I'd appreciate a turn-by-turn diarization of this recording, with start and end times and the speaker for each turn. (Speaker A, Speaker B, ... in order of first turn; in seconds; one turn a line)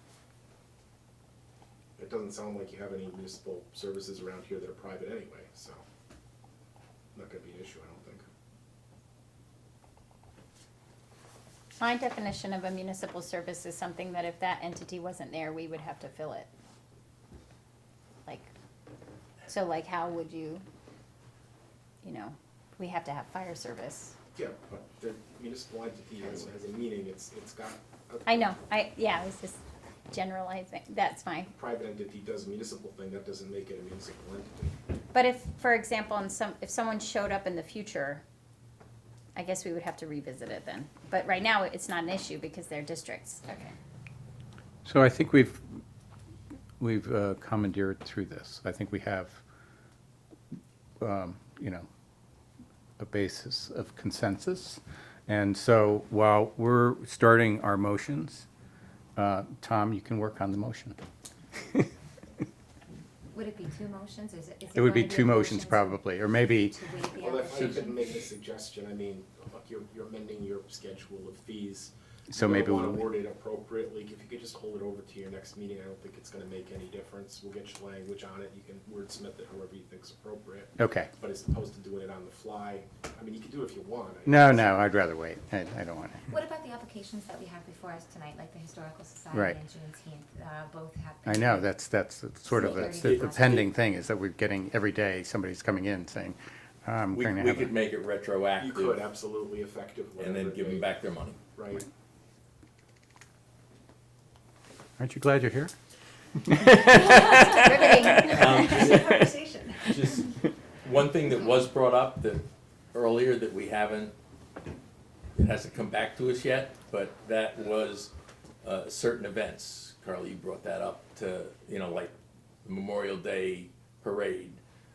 Speaker A: 2.0-5.8
Speaker A: 7.1-8.2
Speaker B: 11.8-16.5
Speaker B: 19.5-20.6
Speaker B: 22.0-24.1
Speaker A: 24.3-28.5
Speaker B: 28.2-29.6
Speaker B: 30.1-31.5
Speaker A: 31.5-34.7
Speaker B: 35.1-38.2
Speaker B: 39.4-43.7
Speaker C: 44.9-45.6
Speaker C: 46.8-49.4
Speaker C: 51.0-51.9
Speaker C: 53.0-58.5
Speaker C: 59.1-61.0
Speaker D: 63.3-66.0
Speaker C: 64.7-66.7
Speaker D: 66.7-68.0
Speaker A: 67.1-84.9
Speaker E: 67.5-67.8
Speaker C: 72.3-73.0
Speaker C: 80.8-81.1
Speaker C: 84.2-86.3
Speaker D: 86.3-91.6
Speaker C: 91.2-97.7
Speaker D: 92.5-93.4
Speaker E: 92.5-93.6
Speaker E: 97.1-99.1
Speaker A: 98.6-101.0
Speaker E: 100.2-101.4
Speaker A: 101.5-101.8
Speaker C: 105.0-105.7
Speaker C: 106.4-108.4
Speaker D: 107.0-110.2
Speaker B: 107.5-108.9
Speaker E: 108.3-114.1
Speaker E: 115.3-118.1
Speaker E: 118.6-124.6